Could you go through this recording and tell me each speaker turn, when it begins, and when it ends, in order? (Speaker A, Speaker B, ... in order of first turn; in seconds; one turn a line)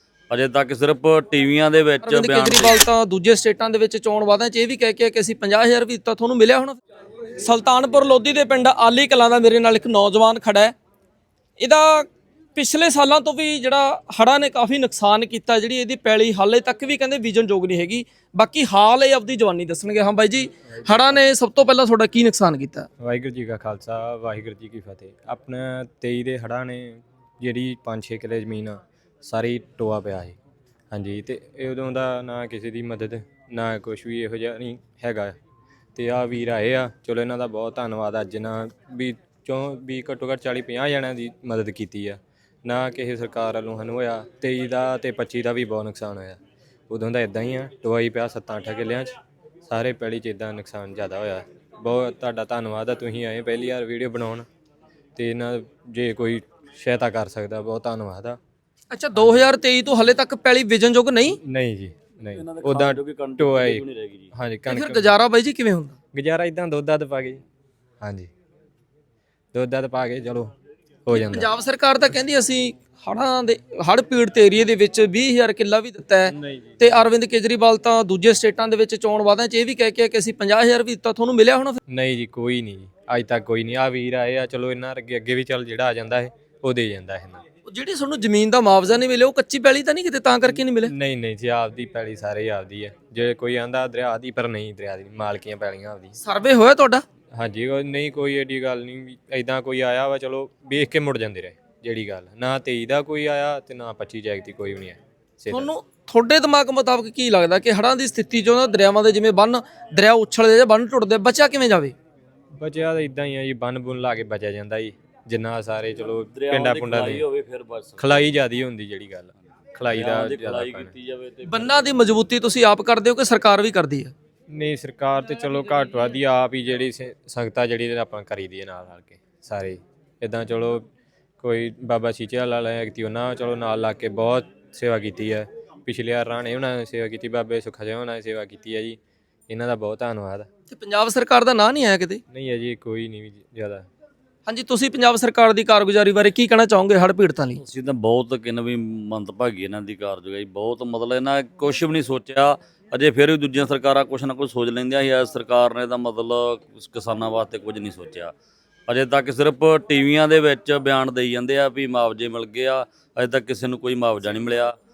Speaker A: 0.3-2.8
Speaker B: 2.0-6.8
Speaker B: 7.3-10.7
Speaker B: 11.6-22.9
Speaker C: 23.0-30.4
Speaker C: 30.9-35.3
Speaker C: 35.9-49.1
Speaker C: 49.6-54.4
Speaker C: 55.1-58.4
Speaker B: 58.9-61.4
Speaker C: 59.1-59.5
Speaker C: 61.4-65.1
Speaker A: 62.3-64.3
Speaker B: 64.7-66.0
Speaker C: 66.1-67.4
Speaker C: 68.0-68.3
Speaker C: 69.5-70.5
Speaker C: 71.0-71.5
Speaker B: 71.1-81.8
Speaker C: 76.4-76.7
Speaker C: 81.9-87.4
Speaker B: 87.7-90.9
Speaker C: 90.8-96.2
Speaker B: 96.2-97.0
Speaker C: 97.3-105.7
Speaker B: 105.5-111.9
Speaker C: 112.6-117.2
Speaker A: 116.2-118.2
Speaker C: 118.0-120.9
Speaker A: 119.9-122.0
Speaker B: 121.4-124.1
Speaker C: 124.5-130.8
Speaker C: 131.4-140.5
Speaker B: 140.7-142.2
Speaker C: 142.3-143.9
Speaker B: 144.5-147.6
Speaker A: 147.6-158.3
Speaker A: 158.9-164.8